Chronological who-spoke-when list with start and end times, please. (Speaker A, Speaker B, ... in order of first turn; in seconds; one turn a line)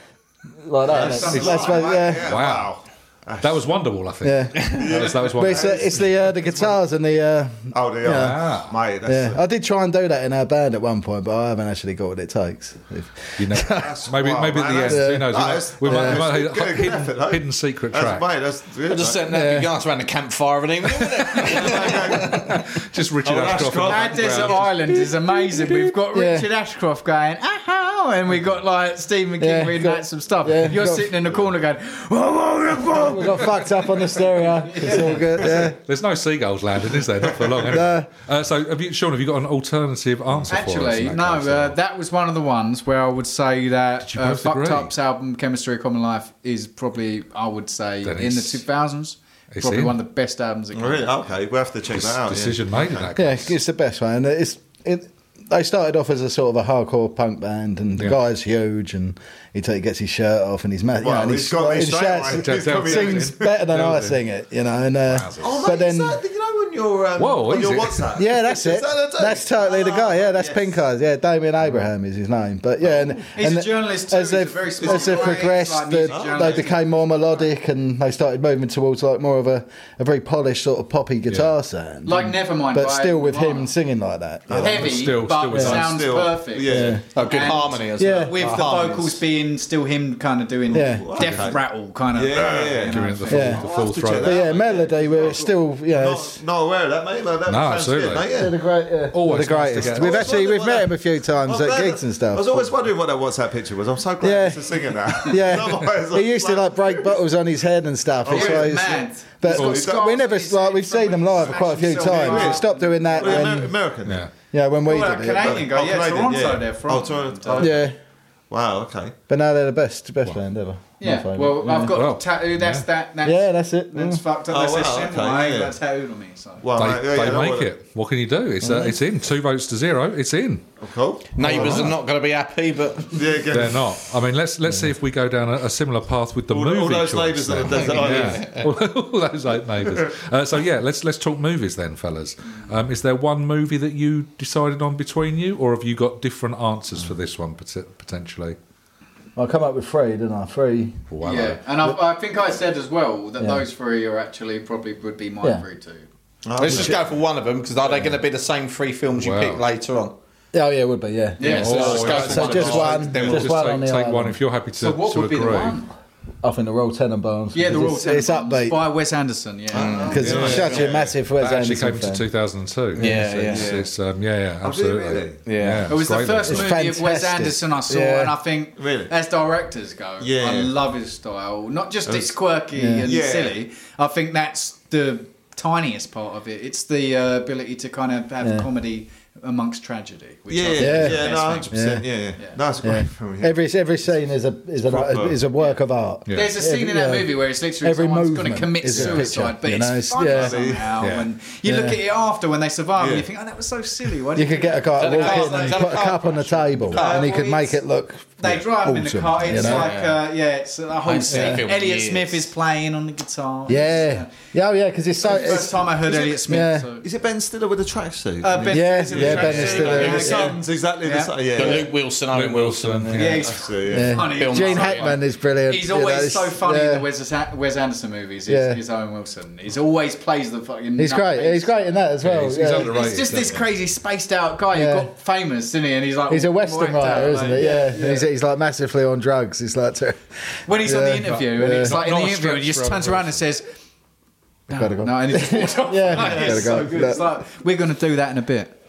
Speaker A: 0.6-2.3
Speaker B: 0.8-2.1
Speaker C: 0.9-3.7
Speaker D: 1.3-2.7
Speaker D: 3.4-6.0
Speaker A: 4.2-8.4
Speaker C: 4.6-6.8
Speaker C: 7.7-9.4
Speaker D: 8.1-8.7
Speaker A: 9.1-13.9
Speaker D: 13.4-18.3
Speaker C: 13.8-19.3
Speaker A: 14.9-16.2
Speaker E: 18.9-22.6
Speaker A: 19.3-19.7
Speaker D: 21.3-24.7
Speaker C: 21.3-22.6
Speaker C: 23.2-25.1
Speaker B: 23.8-35.3
Speaker A: 26.1-26.5
Speaker A: 29.4-31.1
Speaker A: 32.8-35.8
Speaker D: 35.4-41.8
Speaker A: 37.7-38.1
Speaker B: 40.5-51.1
Speaker D: 44.0-44.9
Speaker D: 48.0-48.6
Speaker D: 49.5-50.0
Speaker C: 50.7-53.1
Speaker D: 51.9-53.5
Speaker A: 53.1-66.2
Speaker C: 61.0-63.5
Speaker D: 62.2-64.2
Speaker D: 65.0-65.6
Speaker C: 65.4-70.7
Speaker D: 67.2-68.1
Speaker A: 68.2-85.0
Speaker C: 72.8-73.1
Speaker B: 73.3-76.9
Speaker C: 74.8-76.7
Speaker B: 82.0-83.7
Speaker C: 84.5-85.1
Speaker B: 84.5-93.7
Speaker D: 84.6-86.1
Speaker A: 85.5-85.8
Speaker C: 85.6-87.0
Speaker A: 86.7-87.0
Speaker E: 87.1-89.2
Speaker A: 88.0-88.3
Speaker C: 90.7-91.6
Speaker A: 90.7-91.1
Speaker D: 91.2-91.5
Speaker C: 92.1-98.5
Speaker D: 92.6-94.5
Speaker A: 93.3-93.6
Speaker A: 94.1-96.4
Speaker D: 97.5-98.3
Speaker A: 98.3-102.7
Speaker D: 99.1-100.3
Speaker C: 99.7-107.1
Speaker A: 104.2-113.7
Speaker C: 108.2-110.0
Speaker B: 108.3-113.6
Speaker C: 112.0-112.6
Speaker C: 113.2-114.3
Speaker D: 114.0-114.3
Speaker A: 114.5-115.6
Speaker B: 114.8-117.8
Speaker C: 115.4-117.9
Speaker A: 117.6-117.9
Speaker C: 118.5-119.2
Speaker A: 119.3-121.9
Speaker B: 121.0-126.6
Speaker D: 121.9-122.8
Speaker A: 123.2-124.2
Speaker C: 124.5-125.8
Speaker C: 126.6-127.7
Speaker D: 126.8-130.7
Speaker A: 128.6-128.9
Speaker C: 130.8-131.9
Speaker E: 131.3-133.2
Speaker D: 131.4-131.9
Speaker A: 131.5-131.8
Speaker C: 133.1-133.8
Speaker D: 133.5-148.6
Speaker C: 136.5-138.5
Speaker E: 137.8-138.6
Speaker A: 149.3-151.0
Speaker D: 151.1-151.6
Speaker B: 151.2-156.1
Speaker C: 156.4-157.1
Speaker E: 156.6-160.2
Speaker D: 159.2-159.6
Speaker A: 160.5-164.4
Speaker B: 161.4-163.0
Speaker E: 161.4-163.4
Speaker D: 161.4-165.8
Speaker C: 162.6-163.5
Speaker B: 164.8-165.9
Speaker A: 166.4-168.8
Speaker B: 167.5-170.3
Speaker C: 169.7-171.1
Speaker E: 169.7-170.9
Speaker A: 170.1-172.2
Speaker D: 170.2-170.7
Speaker D: 171.3-176.7
Speaker E: 172.9-173.7
Speaker A: 173.0-173.3
Speaker C: 173.5-173.9
Speaker C: 174.6-175.4
Speaker E: 175.4-175.9
Speaker B: 175.9-191.7
Speaker A: 176.5-178.3
Speaker C: 178.8-179.1
Speaker C: 180.2-180.7
Speaker C: 182.1-182.3
Speaker A: 182.8-183.1
Speaker C: 183.0-183.6
Speaker A: 188.4-188.7
Speaker C: 190.5-193.6
Speaker A: 190.8-192.0
Speaker A: 192.8-200.6
Speaker C: 194.8-195.4
Speaker D: 196.3-196.5
Speaker B: 196.3-206.1
Speaker D: 198.9-199.2
Speaker C: 200.2-201.0
Speaker D: 201.0-201.3
Speaker A: 201.6-202.0
Speaker C: 203.0-203.3
Speaker A: 204.3-209.9
Speaker E: 205.0-207.2
Speaker B: 206.9-207.8
Speaker B: 208.4-214.3
Speaker E: 209.6-210.2
Speaker E: 211.0-212.5
Speaker A: 213.7-216.9
Speaker B: 215.2-217.1
Speaker C: 217.0-221.9
Speaker B: 218.4-221.8
Speaker A: 218.7-220.6
Speaker E: 219.6-220.4
Speaker E: 221.5-223.4
Speaker D: 222.3-223.5
Speaker B: 223.1-232.0
Speaker C: 223.3-224.3
Speaker A: 223.9-227.1
Speaker E: 224.2-225.1
Speaker A: 228.5-228.8
Speaker A: 231.0-232.9
Speaker D: 232.2-233.6
Speaker B: 232.7-238.3
Speaker A: 234.7-235.1
Speaker A: 236.3-242.0
Speaker B: 240.7-243.6
Speaker D: 241.2-243.4
Speaker B: 244.7-248.7
Speaker A: 244.7-247.2
Speaker C: 246.1-246.6